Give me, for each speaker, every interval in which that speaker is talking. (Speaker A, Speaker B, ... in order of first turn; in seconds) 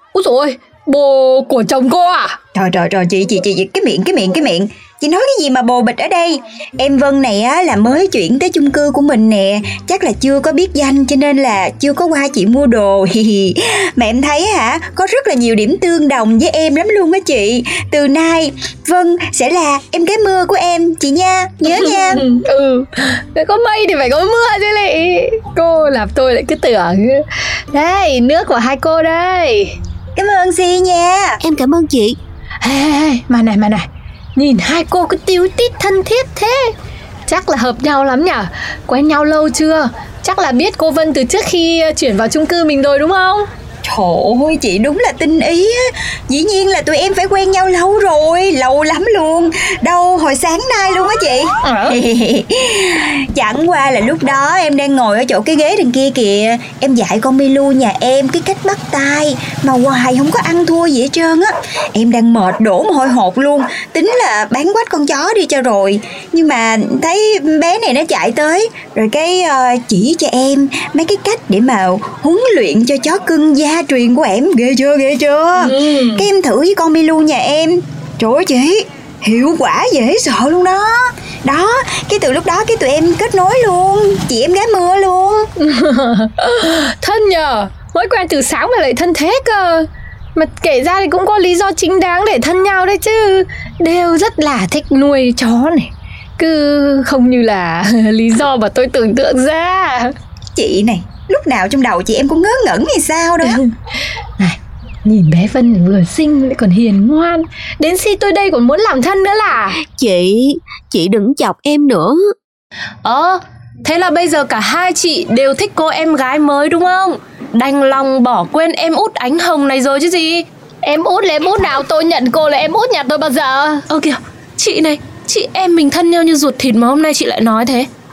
Speaker A: 0.1-2.3, 21.7-29.8, 32.6-36.6, 37.3-43.5, 51.6-52.0, 75.6-76.2, 85.6-100.1, 103.4-103.7, 104.4-109.8, 120.8-123.8
Speaker B: 2.5-22.2, 30.1-31.4, 43.9-85.5, 100.5-103.6
Speaker C: 31.4-32.2, 109.8-112.3
Speaker D: 113.0-120.4, 123.9-127.9